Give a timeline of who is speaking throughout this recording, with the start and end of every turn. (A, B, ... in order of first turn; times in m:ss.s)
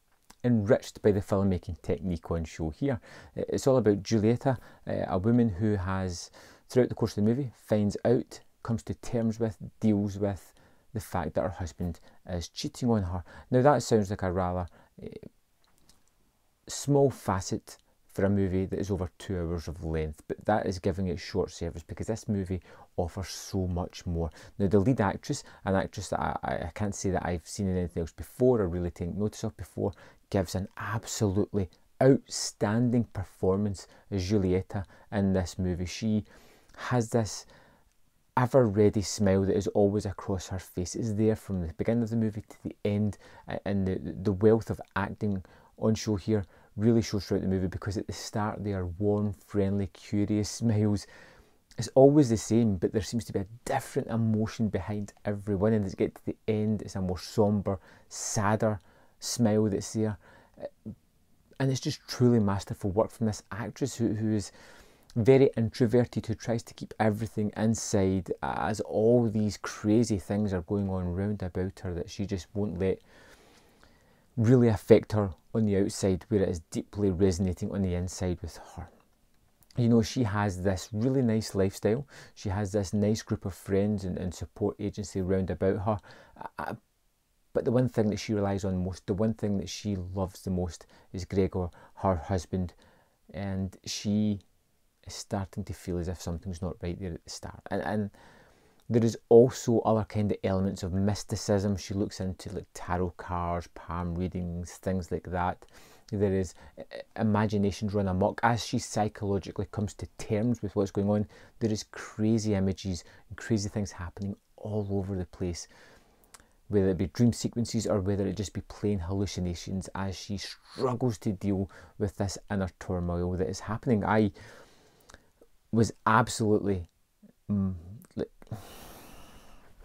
0:00.4-0:15.3 A
0:16.7-0:37.5 A
0:38.4-0:51.1 A
0:51.8-1:00.7 A
1:01.6-1:04.5 A
1:05.2-1:13.0 A
1:14.4-1:18.9 A
1:19.8-1:26.8 A
1:27.5-1:32.7 A
1:33.3-1:34.4 A
1:35.1-1:38.1 A
1:38.9-1:55.7 A
1:56.7-2:04.3 A
2:05.7-2:06.9 A
2:07.5-2:08.7 A